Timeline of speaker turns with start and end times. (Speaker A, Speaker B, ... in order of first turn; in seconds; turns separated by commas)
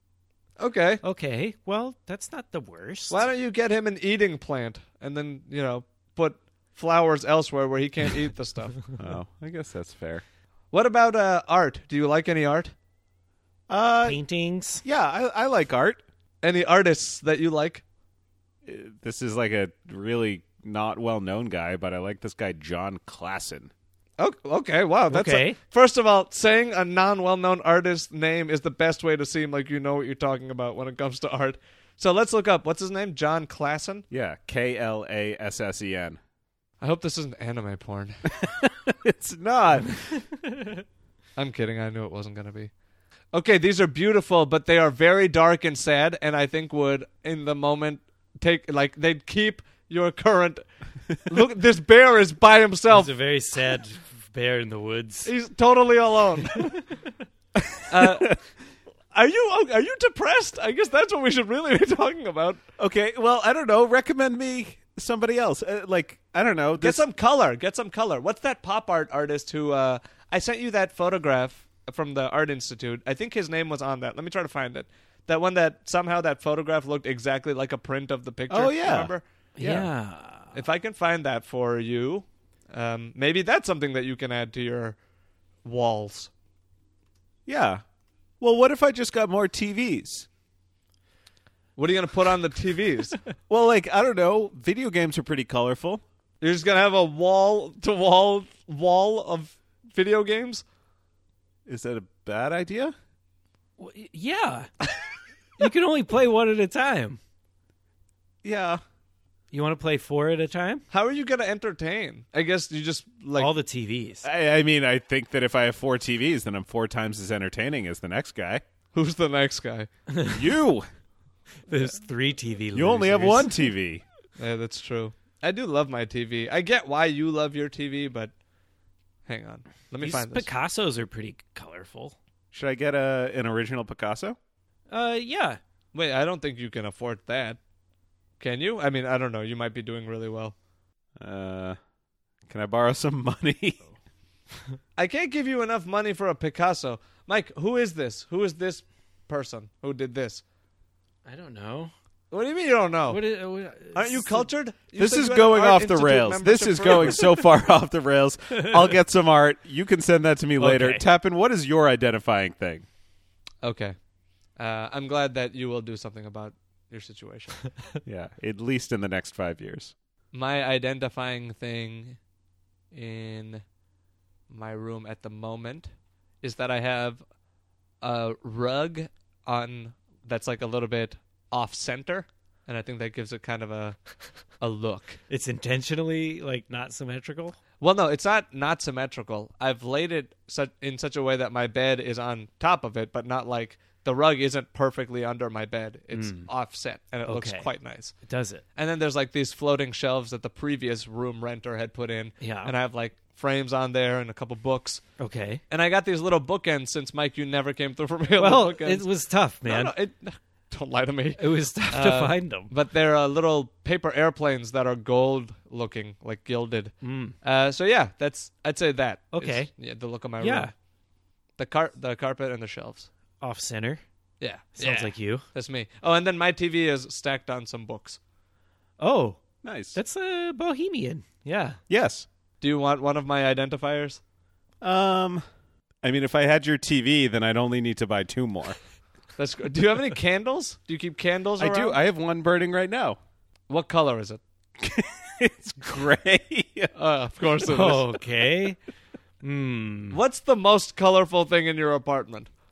Speaker A: 0.6-1.0, Speaker B: 1.0-3.3, Speaker A: 3.1-8.8, Speaker C: 9.0-10.2, Speaker A: 10.7-12.7, Speaker C: 13.7-14.2, Speaker B: 14.0-14.8, Speaker C: 14.8-16.0, Speaker A: 16.4-17.8, Speaker C: 18.6-23.7, Speaker A: 24.2-34.0, Speaker B: 25.1-25.6, Speaker C: 34.1-36.2, Speaker A: 36.8-38.2, Speaker C: 38.3-40.1, Speaker A: 41.4-42.7, Speaker A: 43.3-50.6, Speaker A: 51.2-53.1, Speaker B: 52.9-55.3, Speaker A: 55.2-56.9, Speaker C: 57.6-58.3, Speaker A: 57.9-58.4, Speaker A: 59.1-62.6, Speaker C: 62.8-67.0, Speaker A: 66.8-79.2, Speaker C: 78.5-79.9, Speaker B: 79.6-80.5, Speaker A: 80.5-85.0, Speaker A: 85.6-86.3, Speaker C: 87.5-87.8, Speaker C: 88.4-90.3, Speaker A: 91.8-93.2, Speaker C: 93.5-96.0, Speaker A: 96.4-100.6, Speaker C: 101.7-102.9, Speaker B: 103.8-104.7, Speaker B: 105.6-107.2, Speaker C: 108.4-108.8, Speaker B: 109.5-110.8, Speaker A: 110.9-113.5, Speaker B: 113.4-114.2, Speaker C: 114.2-118.6, Speaker A: 118.9-119.9, Speaker B: 120.1-120.5, Speaker C: 120.3-120.8, Speaker B: 121.7-123.5, Speaker C: 122.7-124.0, Speaker A: 124.4-128.3, Speaker A: 129.3-130.5, Speaker B: 130.0-132.2, Speaker C: 132.5-134.4, Speaker B: 134.9-135.6, Speaker A: 135.9-137.6, Speaker A: 138.4-140.5, Speaker C: 141.2-141.8, Speaker C: 142.5-143.8, Speaker A: 145.0-150.4, Speaker B: 151.2-151.9, Speaker A: 152.3-153.2, Speaker B: 153.1-154.5, Speaker A: 153.9-157.3, Speaker C: 154.9-162.8, Speaker B: 158.6-158.9, Speaker B: 160.6-161.0, Speaker A: 163.6-163.9, Speaker A: 164.6-167.6, Speaker C: 168.1-169.9, Speaker A: 170.3-172.2, Speaker A: 172.9-173.6, Speaker A: 174.5-175.9, Speaker A: 176.4-177.2, Speaker A: 178.0-184.0, Speaker A: 184.6-185.2, Speaker B: 185.3-187.6, Speaker A: 187.8-198.1, Speaker B: 196.1-196.5, Speaker B: 197.2-197.7, Speaker B: 198.2-198.6, Speaker A: 198.8-205.0, Speaker B: 202.4-202.7, Speaker B: 205.2-205.6, Speaker A: 205.7-209.1, Speaker B: 208.4-209.9, Speaker A: 209.6-220.7, Speaker B: 211.4-212.7, Speaker B: 217.0-217.3, Speaker B: 219.3-219.7, Speaker B: 220.4-220.7, Speaker A: 221.6-223.1, Speaker B: 223.4-224.0, Speaker A: 224.4-228.2, Speaker B: 224.8-225.4, Speaker B: 229.0-229.4, Speaker C: 229.6-230.0, Speaker B: 229.9-231.8, Speaker C: 231.9-232.2, Speaker A: 232.6-234.2, Speaker C: 234.8-235.4, Speaker C: 236.0-238.8, Speaker A: 239.4-242.0, Speaker C: 241.6-243.2, Speaker A: 243.7-244.4, Speaker C: 244.8-246.9, Speaker A: 246.9-248.1, Speaker B: 247.6-248.8, Speaker B: 249.4-250.2, Speaker A: 250.1-252.5